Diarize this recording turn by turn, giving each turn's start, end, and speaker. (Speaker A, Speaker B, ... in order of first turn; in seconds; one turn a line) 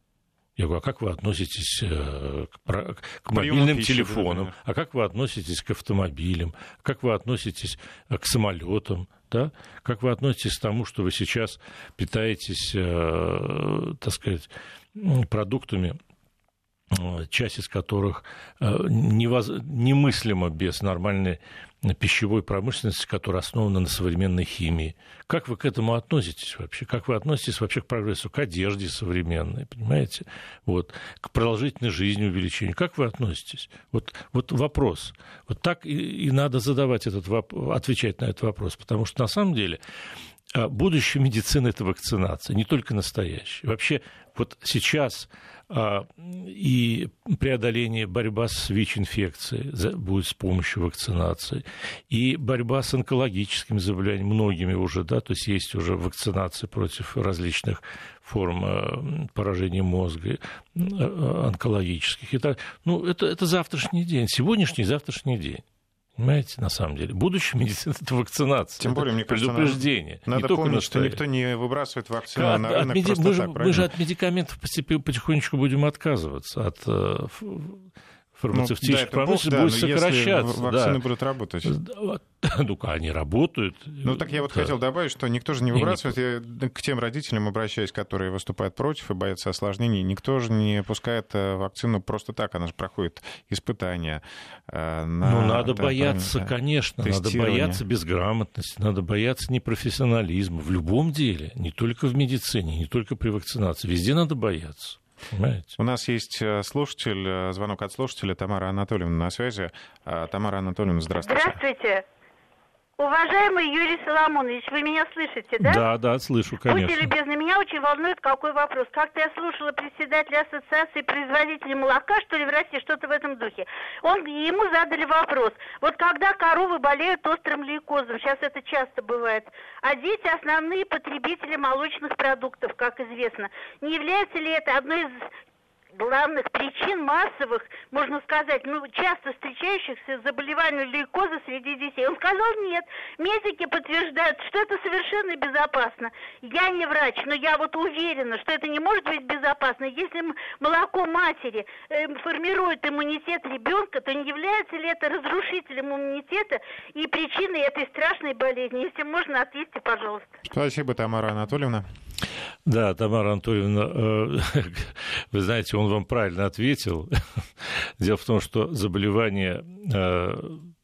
Speaker A: 0.6-16.0
Speaker B: 3.3-4.6
Speaker A: 16.9-39.8
Speaker A: 40.5-65.6
Speaker A: 66.2-71.2
Speaker B: 68.8-73.9
Speaker A: 72.3-81.0
Speaker B: 78.5-81.8
Speaker A: 81.7-84.7
Speaker B: 84.0-97.8
Speaker A: 85.7-86.2
Speaker A: 95.2-105.8
Speaker B: 105.8-111.6
Speaker C: 111.2-112.0
Speaker C: 113.0-115.9
Speaker A: 115.6-117.1
Speaker C: 116.7-135.3
Speaker C: 135.9-160.3
Speaker B: 160.5-161.9
Speaker A: 162.7-170.7